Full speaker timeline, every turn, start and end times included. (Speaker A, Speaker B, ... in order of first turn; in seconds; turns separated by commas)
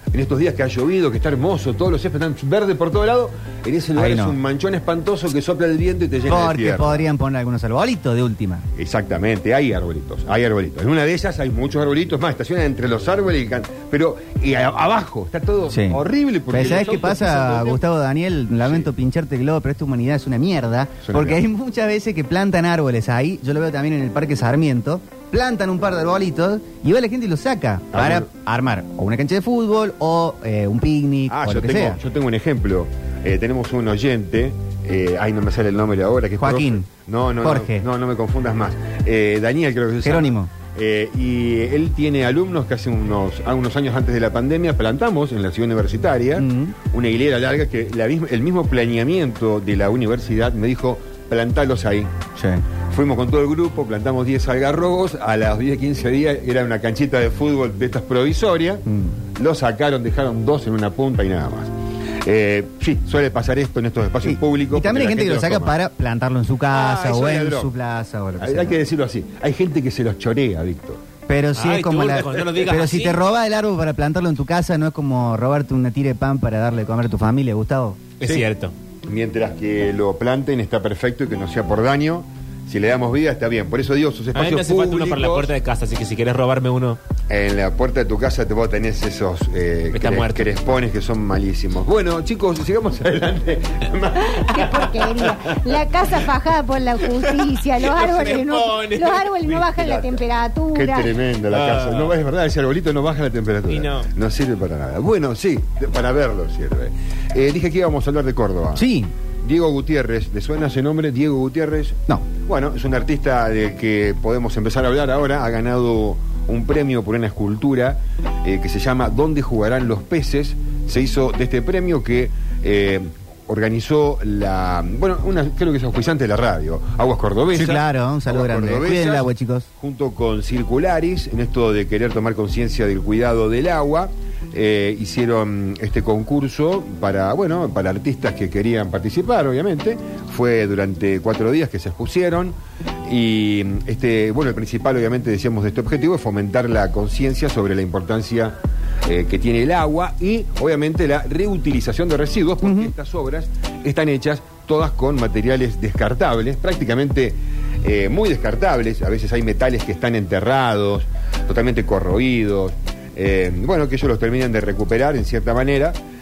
Speaker A: 0.1-7.1, Speaker B: 3.9-4.4, Speaker B: 6.3-8.7, Speaker A: 8.8-17.8, Speaker B: 15.7-32.0, Speaker A: 18.6-18.9, Speaker A: 21.0-21.4, Speaker A: 27.9-28.3, Speaker A: 31.3-52.1, Speaker B: 36.4-36.9, Speaker B: 37.4-37.8, Speaker B: 40.0-40.5, Speaker B: 46.4-46.7, Speaker B: 52.4-52.6, Speaker A: 52.9-61.7, Speaker A: 62.2-65.8, Speaker B: 64.2-68.8, Speaker A: 66.7-67.7, Speaker A: 68.4-71.0, Speaker B: 71.3-78.0, Speaker C: 71.5-73.2, Speaker C: 78.2-78.7, Speaker A: 78.2-78.5, Speaker A: 79.0-85.5, Speaker C: 84.3-87.0, Speaker A: 87.3-95.0, Speaker C: 89.9-90.5, Speaker D: 94.5-101.2, Speaker C: 97.1-99.6, Speaker A: 99.5-100.2, Speaker A: 100.7-108.8, Speaker C: 101.5-102.1, Speaker C: 103.7-104.1, Speaker B: 108.8-109.1, Speaker A: 109.4-166.0, Speaker B: 127.5-129.7, Speaker B: 152.6-152.9